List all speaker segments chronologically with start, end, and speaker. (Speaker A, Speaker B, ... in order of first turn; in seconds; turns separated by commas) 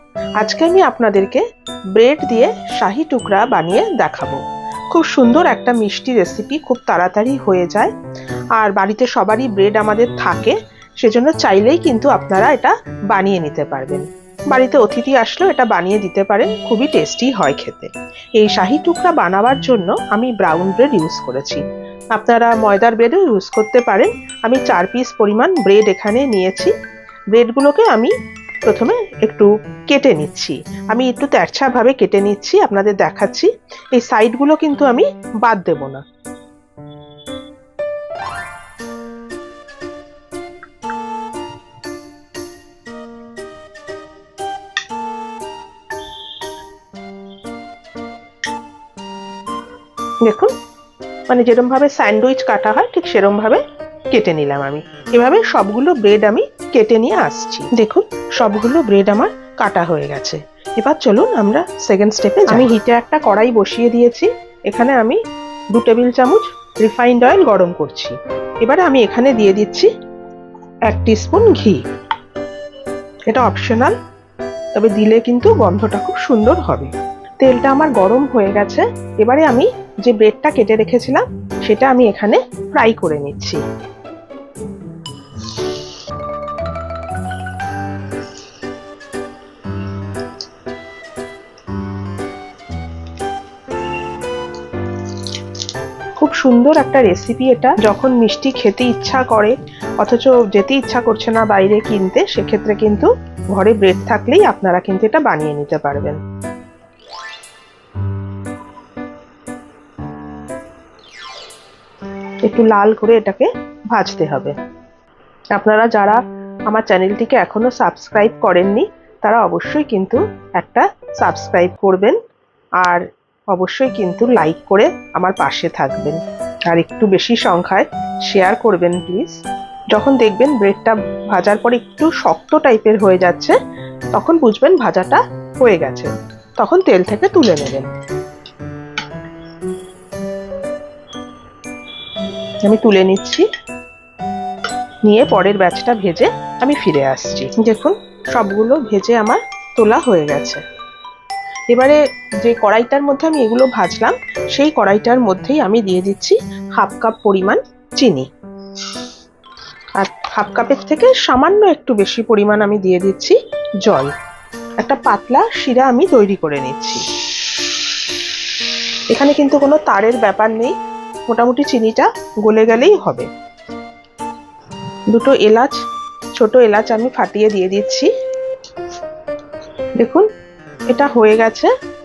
Speaker A: 0.4-1.4, Speaker A: 2.0-4.4, Speaker A: 4.9-7.9, Speaker A: 8.6-21.6, Speaker A: 22.1-26.7, Speaker A: 27.3-28.1, Speaker A: 28.6-36.0, Speaker A: 50.2-50.5, Speaker A: 51.3-53.6, Speaker A: 54.1-65.2, Speaker A: 65.7-69.9, Speaker A: 70.9-71.8, Speaker A: 73.3-74.0, Speaker A: 74.7-83.6, Speaker A: 96.2-106.2, Speaker A: 112.5-114.5, Speaker A: 115.5-122.2, Speaker A: 122.8-129.4, Speaker A: 129.9-133.6, Speaker A: 134.1-137.9, Speaker A: 142.7-143.4, Speaker A: 145.0-150.6, Speaker A: 151.7-158.3, Speaker A: 160.0-164.1, Speaker A: 164.8-167.0, Speaker A: 169.1-170.7, Speaker A: 171.3-173.3, Speaker A: 175.1-175.8, Speaker A: 176.4-178.1, Speaker A: 180.0-180.3, Speaker A: 180.9-181.7